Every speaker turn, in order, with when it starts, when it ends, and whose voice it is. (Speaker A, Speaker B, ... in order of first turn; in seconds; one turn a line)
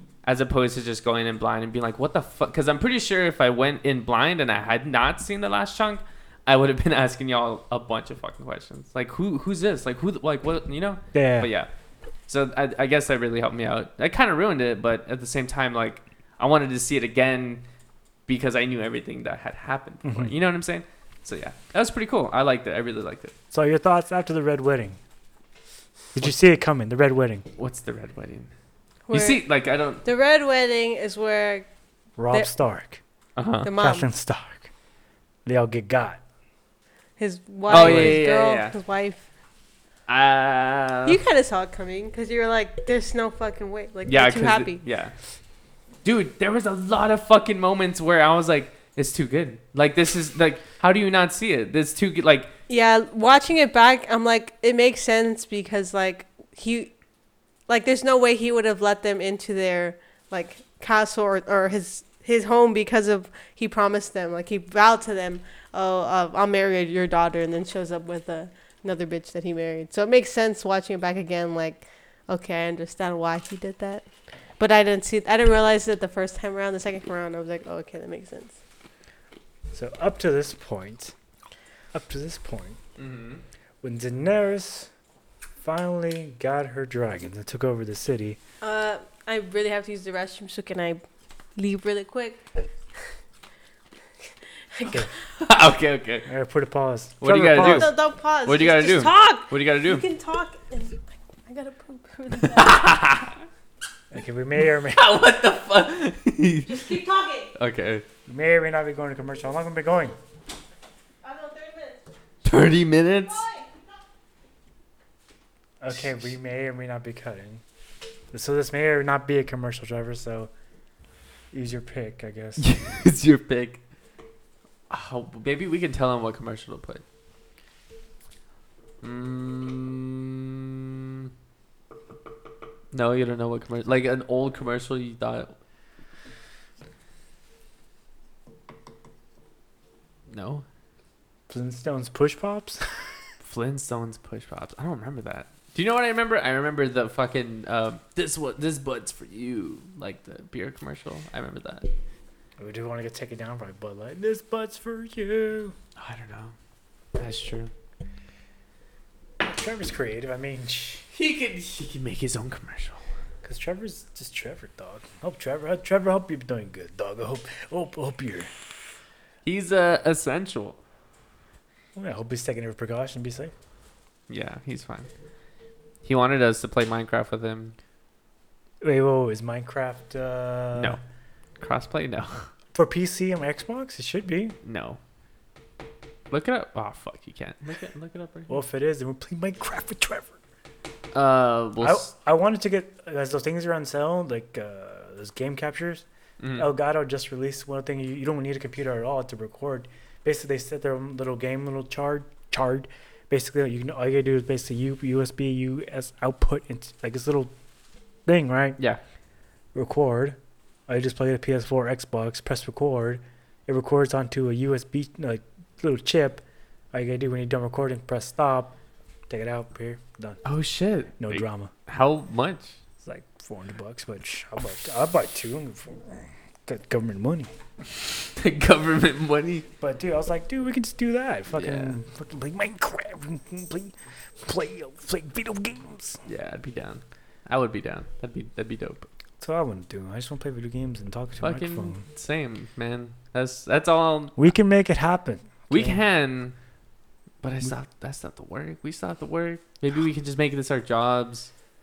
Speaker A: 0.2-11.7
Speaker B: 11.1-11.5
Speaker A: 12.3-17.6
Speaker A: 18.3-23.3
Speaker B: 20.0-20.3
Speaker B: 23.5-25.0
Speaker B: 26.1-27.4
Speaker A: 27.6-28.5
Speaker C: 29.1-29.4
Speaker A: 29.1-30.0
Speaker C: 30.0-31.7
Speaker B: 32.2-33.0
Speaker A: 33.4-33.7
Speaker C: 33.6-34.1
Speaker B: 33.8-34.7
Speaker B: 35.5-36.2
Speaker C: 37.2-39.2
Speaker A: 37.7-38.7
Speaker B: 37.7-38.2
Speaker A: 40.1-41.2
Speaker C: 41.0-44.8
Speaker A: 44.0-45.1
Speaker A: 46.0-52.5
Speaker C: 52.7-56.9
Speaker C: 57.7-74.1
Speaker C: 74.6-78.5
Speaker B: 79.7-81.1
Speaker B: 81.9-82.8
Speaker A: 83.0-83.4
Speaker B: 83.8-84.9
Speaker B: 85.6-88.4
Speaker C: 88.6-91.0
Speaker C: 91.5-92.4
Speaker C: 94.7-95.1
Speaker A: 95.4-96.3
Speaker B: 96.3-97.9
Speaker A: 97.2-97.9
Speaker C: 97.5-102.8
Speaker A: 98.4-100.0
Speaker A: 102.5-103.4
Speaker B: 104.1-105.0
Speaker A: 104.9-107.0
Speaker C: 106.7-107.5
Speaker A: 107.5-108.0
Speaker B: 108.3-110.2
Speaker C: 111.2-112.0
Speaker A: 112.4-113.4
Speaker C: 113.3-113.7
Speaker B: 115.8-117.6
Speaker B: 118.3-120.5
Speaker B: 121.5-122.6
Speaker A: 122.6-123.8
Speaker A: 124.9-127.0
Speaker A: 129.0-131.3
Speaker A: 132.9-135.5
Speaker A: 140.3-140.6
Speaker B: 141.5-142.8
Speaker A: 143.4-151.9
Speaker B: 152.6-155.8
Speaker A: 155.9-156.5
Speaker A: 157.2-157.7
Speaker B: 159.4-161.1
Speaker A: 161.1-163.0
Speaker B: 163.4-168.5
Speaker A: 169.4-170.8
Speaker B: 171.9-173.5
Speaker A: 174.3-175.1
Speaker A: 176.0-177.7
Speaker B: 178.8-181.0
Speaker A: 181.6-182.5
Speaker B: 182.7-184.6
Speaker A: 184.6-185.0
Speaker A: 186.3-188.6
Speaker B: 188.5-190.4
Speaker A: 191.1-192.1
Speaker B: 191.8-207.5
Speaker A: 196.4-196.7
Speaker B: 208.2-208.8
Speaker B: 209.7-218.7
Speaker B: 219.3-220.4
Speaker A: 220.4-222.8
Speaker B: 221.2-221.7
Speaker B: 223.0-227.5
Speaker A: 228.3-229.7
Speaker B: 229.8-236.2
Speaker A: 231.5-231.9
Speaker A: 236.2-239.1
Speaker B: 239.4-242.0
Speaker A: 241.4-244.4
Speaker B: 244.3-246.0
Speaker A: 245.7-246.5
Speaker A: 247.4-251.5